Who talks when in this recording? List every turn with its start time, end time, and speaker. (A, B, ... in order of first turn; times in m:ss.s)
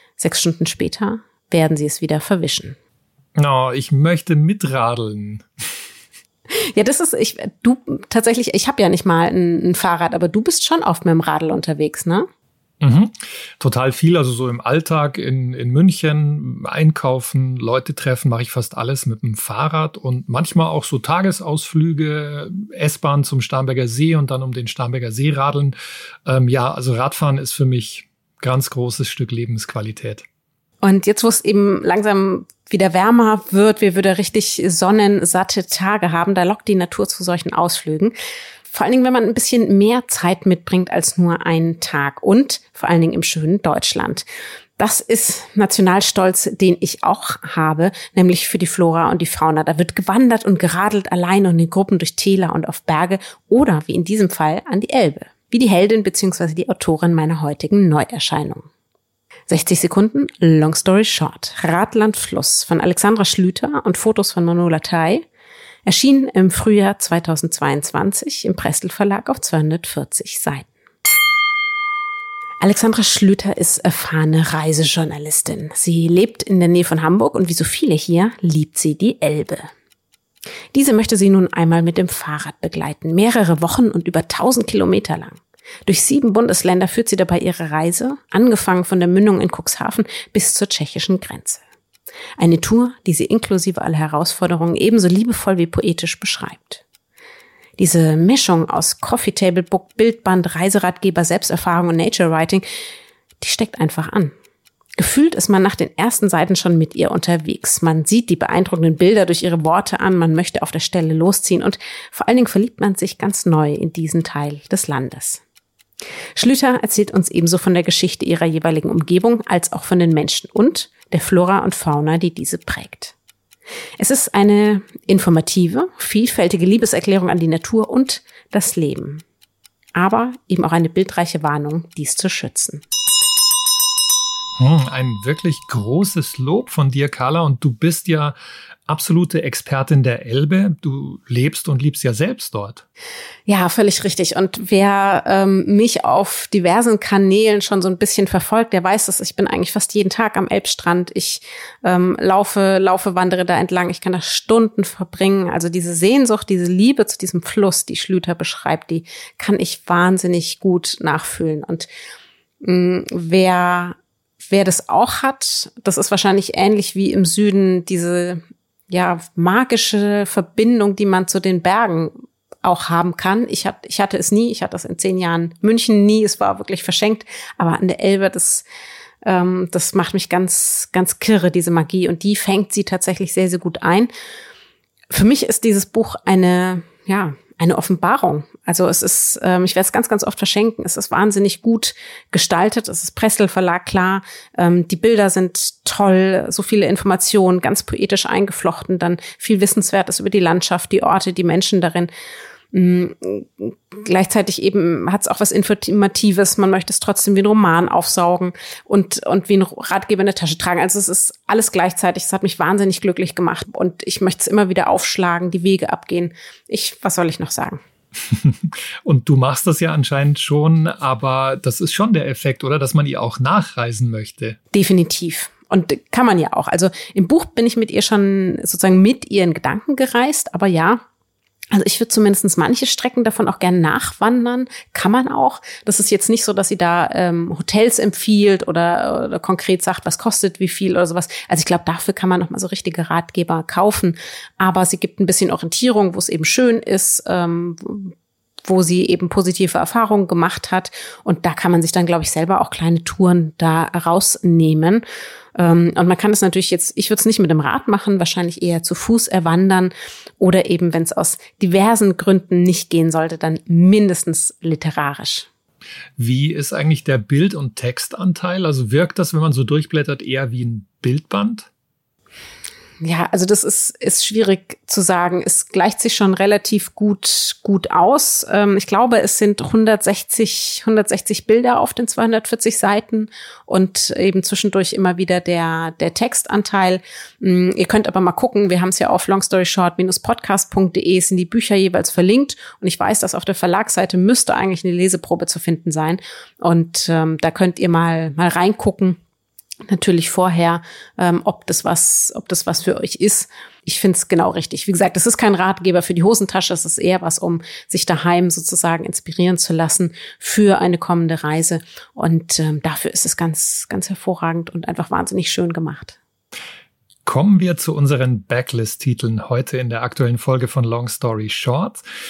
0:00.2-0:02.8 A
0:03.4-0:05.5 B
0:06.5-0:12.3 A
0:12.8-0:30.2 B
0:30.8-0:38.1 A
0:38.7-0:44.2 A
0:44.8-0:58.7 A
0:59.5-1:05.2 A
1:05.8-1:10.7 A
1:12.6-1:19.7 A
1:20.7-1:31.6 A
1:32.4-1:36.8 A
1:37.8-1:42.6 A
1:43.4-1:44.3 A
1:45.0-1:55.4 A
1:56.4-2:03.1 A
2:04.0-2:09.2 A
2:09.9-2:12.8 A
2:14.6-2:18.3 B
2:18.9-2:22.8 B
2:23.5-2:41.9 A
2:42.6-2:58.6 A
2:59.2-3:04.1 A
3:05.1-3:22.1 A
3:22.7-3:37.8 A
3:38.3-3:44.6 B
3:44.7-3:51.0 A
3:51.7-4:08.1 A
4:08.6-4:15.0 A
4:15.6-4:25.5 A
4:26.2-4:31.7 B
4:33.0-4:59.2 A
4:59.9-5:16.2 A
5:17.2-5:22.0 B